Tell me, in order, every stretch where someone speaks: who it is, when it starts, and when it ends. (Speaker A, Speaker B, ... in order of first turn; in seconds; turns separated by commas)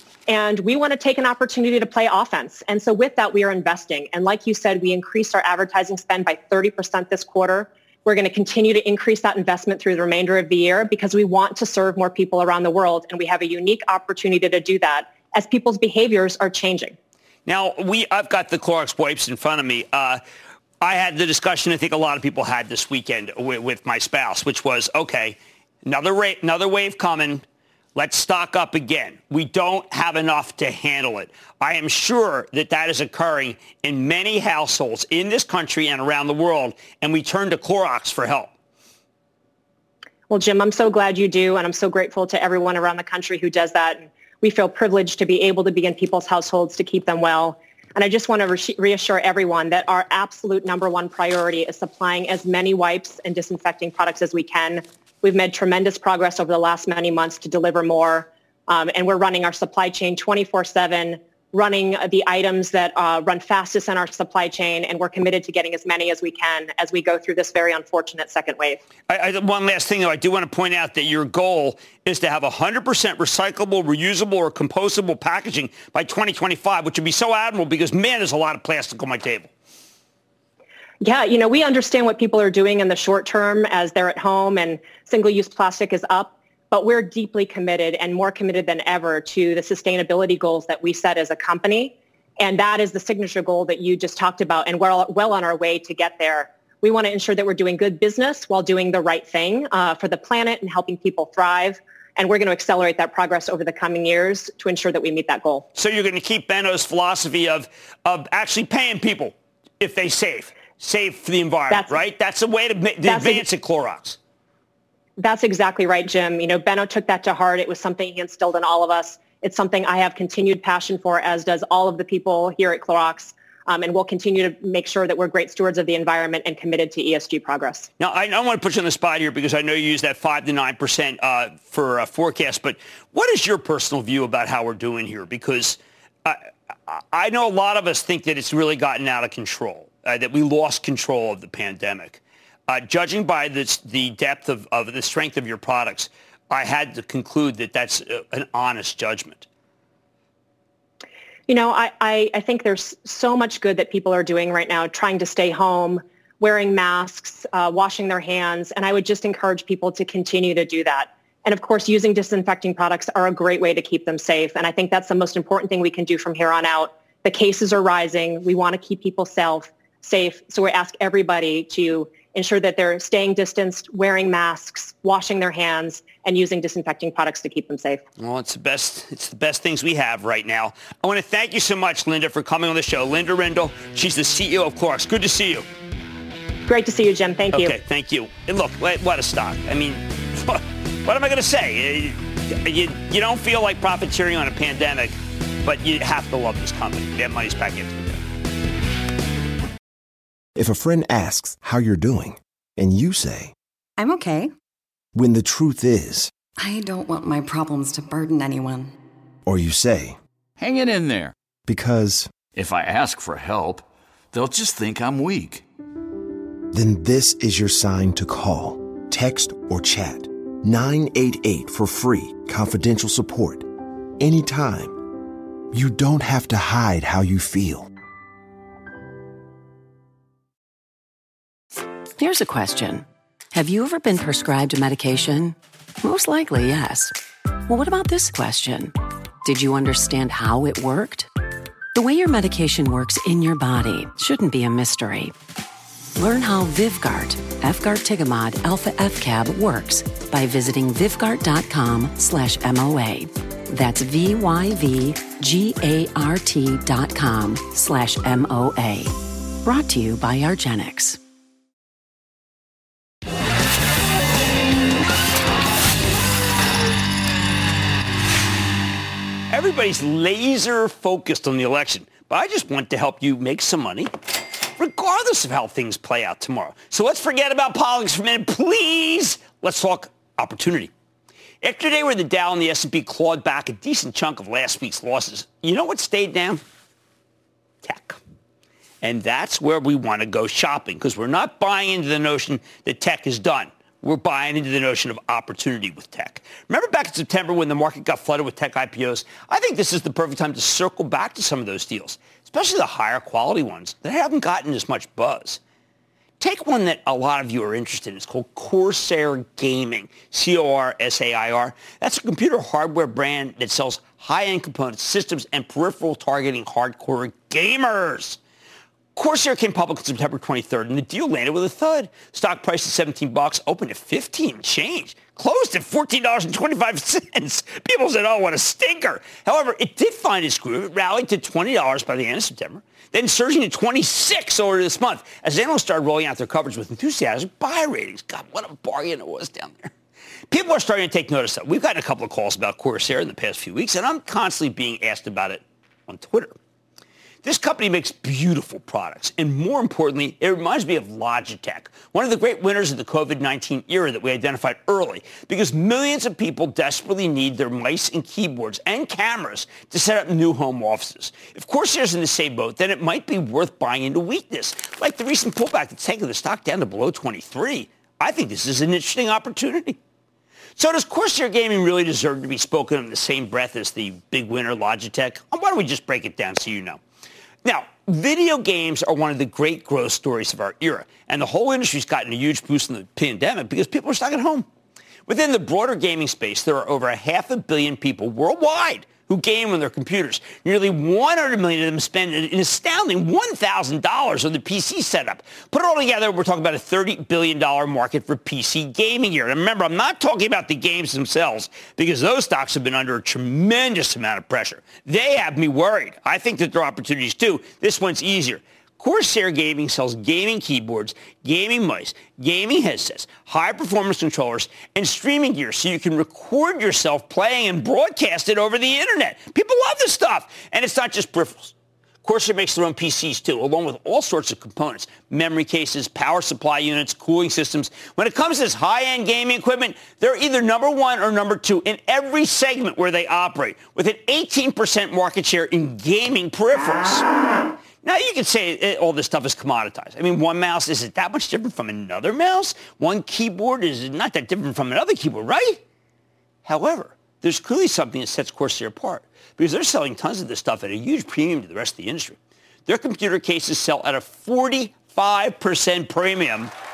Speaker A: 0.3-16.9, Speaker B: 17.4-20.2, Speaker B: 20.8-27.4, Speaker B: 27.9-38.5, Speaker A: 40.3-68.8, Speaker B: 69.1-79.5, Speaker A: 81.0-105.6, Speaker B: 105.7-114.2, Speaker A: 111.7-112.0, Speaker A: 113.0-113.4, Speaker A: 115.2-127.9, Speaker B: 128.0-149.4, Speaker A: 151.5-178.0, Speaker B: 178.2-185.6, Speaker A: 186.7-187.7, Speaker B: 187.5-198.2, Speaker C: 200.6-203.5, Speaker D: 204.0-204.5, Speaker C: 205.1-206.3, Speaker D: 206.6-208.9, Speaker C: 209.4-210.2, Speaker E: 210.6-211.3, Speaker C: 211.7-212.5, Speaker E: 212.4-215.6, Speaker C: 216.7-223.7, Speaker C: 224.2-225.0, Speaker C: 225.7-227.9, Speaker F: 232.2-237.1, Speaker F: 237.7-241.3, Speaker F: 241.9-245.3, Speaker F: 246.2-261.2, Speaker B: 269.5-274.1, Speaker B: 274.8-280.9, Speaker B: 281.6-286.6, Speaker B: 287.8-288.2, Speaker B: 289.0-305.6, Speaker B: 306.4-318.4, Speaker B: 319.1-339.9, Speaker B: 340.5-346.5, Speaker B: 347.4-370.0, Speaker B: 370.8-377.0, Speaker B: 377.6-384.6, Speaker B: 385.3-421.7, Speaker B: 422.2-437.2, Speaker B: 438.0-445.8, Speaker B: 446.6-456.7